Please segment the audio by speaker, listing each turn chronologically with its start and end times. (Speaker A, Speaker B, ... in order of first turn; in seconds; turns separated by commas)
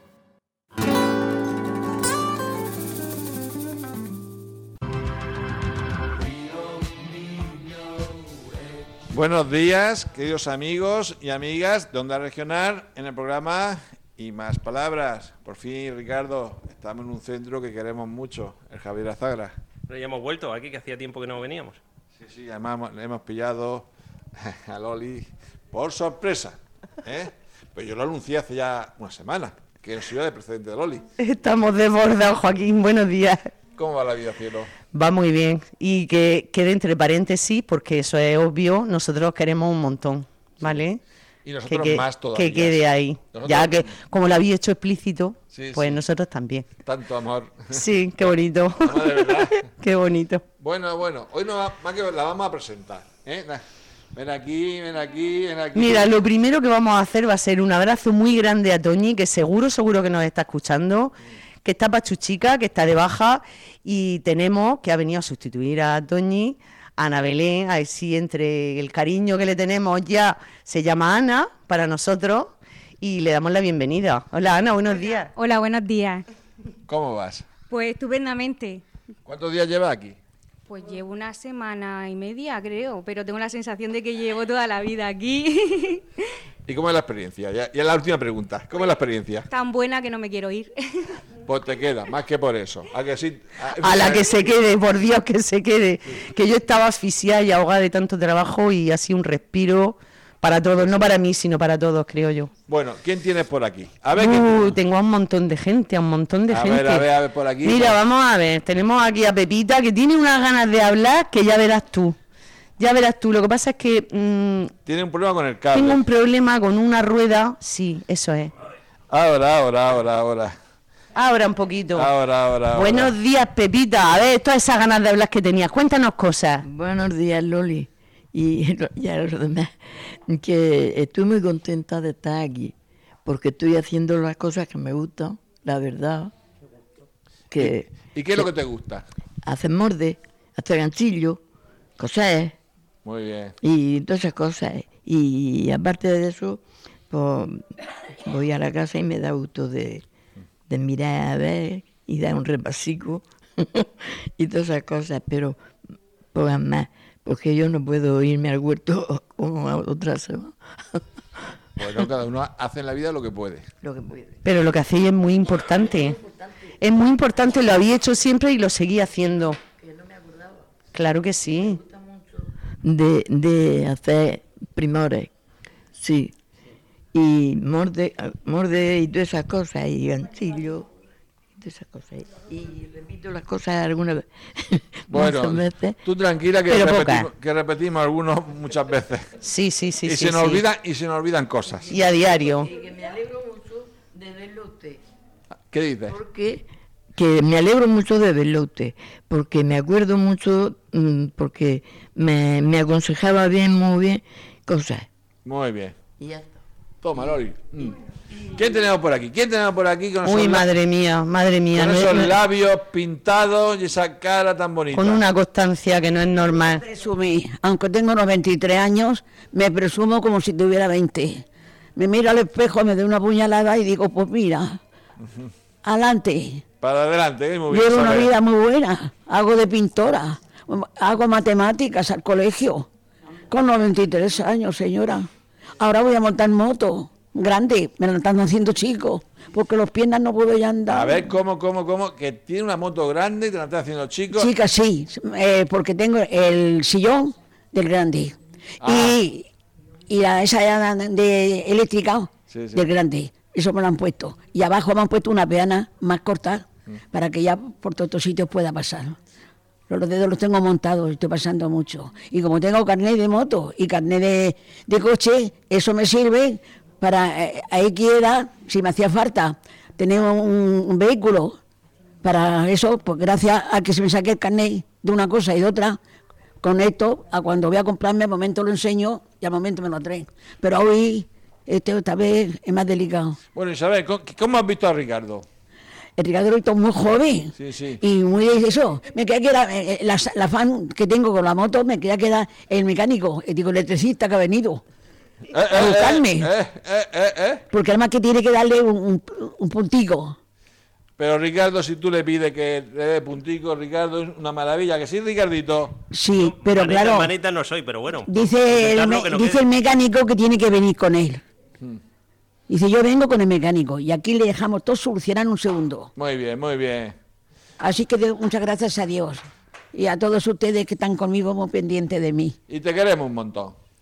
Speaker A: 9.1-19.5, Speaker B: 19.9-21.8, Speaker A: 22.2-31.0, Speaker C: 31.2-33.5, Speaker A: 33.8-34.7, Speaker C: 34.9-41.0, Speaker A: 41.4-42.8, Speaker C: 41.7-46.7, Speaker A: 43.3-43.9, Speaker A: 45.5-46.0, Speaker A: 46.8-49.6, Speaker C: 47.7-50.4, Speaker A: 50.6-53.6, Speaker A: 54.1-56.1, Speaker C: 55.7-75.3, Speaker D: 75.3-76.2, Speaker A: 76.9-77.5, Speaker D: 77.7-78.8, Speaker A: 79.2-80.2, Speaker D: 80.7-86.0, Speaker A: 86.7-89.5, Speaker D: 89.5-91.2, Speaker A: 91.4-94.3, Speaker C: 93.8-102.5, Speaker A: 100.8-101.2, Speaker A: 102.7-104.8, Speaker C: 104.1-107.1, Speaker A: 106.5-108.0, Speaker C: 107.6-112.2, Speaker C: 112.8-114.7, Speaker A: 114.8-116.0, Speaker C: 115.7-118.5, Speaker A: 119.1-120.5, Speaker C: 121.1-122.1, Speaker A: 121.9-123.2, Speaker C: 122.7-126.6, Speaker E: 126.6-132.7, Speaker E: 133.2-136.3, Speaker E: 137.5-138.5, Speaker A: 137.5-139.1, Speaker E: 139.4-141.4, Speaker E: 142.0-142.5, Speaker A: 143.0-143.6, Speaker E: 143.6-147.7, Speaker E: 148.2-150.0, Speaker E: 150.7-155.6, Speaker E: 156.3-161.0, Speaker A: 161.8-163.7, Speaker E: 163.8-164.3, Speaker C: 164.4-166.2, Speaker C: 166.8-169.6, Speaker C: 170.9-171.8, Speaker E: 172.8-175.3, Speaker E: 175.9-176.3, Speaker E: 177.1-180.9, Speaker E: 181.6-186.0, Speaker A: 185.1-189.3, Speaker C: 186.7-187.3, Speaker C: 189.4-190.6, Speaker A: 190.0-191.9, Speaker C: 191.9-192.7, Speaker E: 192.8-195.0, Speaker A: 195.7-196.2, Speaker E: 196.1-205.1, Speaker A: 205.4-206.0, Speaker E: 206.2-206.4, Speaker A: 207.0-210.7, Speaker C: 210.2-212.4, Speaker A: 211.7-215.2, Speaker C: 214.9-216.8, Speaker F: 216.8-224.8, Speaker F: 225.8-226.6, Speaker A: 226.8-228.4, Speaker F: 227.7-232.9, Speaker F: 233.5-235.3, Speaker F: 235.8-241.3, Speaker A: 240.9-244.5, Speaker F: 244.3-249.5, Speaker A: 248.8-249.2, Speaker F: 250.1-259.1, Speaker A: 252.5-252.8, Speaker F: 259.9-271.6, Speaker F: 272.2-276.0, Speaker F: 276.6-283.4, Speaker A: 283.5-285.4, Speaker F: 286.2-294.8, Speaker A: 287.6-288.0, Speaker A: 295.5-297.6, Speaker F: 295.7-296.5, Speaker F: 297.7-300.4, Speaker A: 301.2-306.0, Speaker F: 306.1-307.4, Speaker B: 306.4-309.6, Speaker F: 308.2-311.4, Speaker F: 312.7-316.1, Speaker A: 316.1-317.1, Speaker F: 317.8-322.5, Speaker A: 322.7-323.8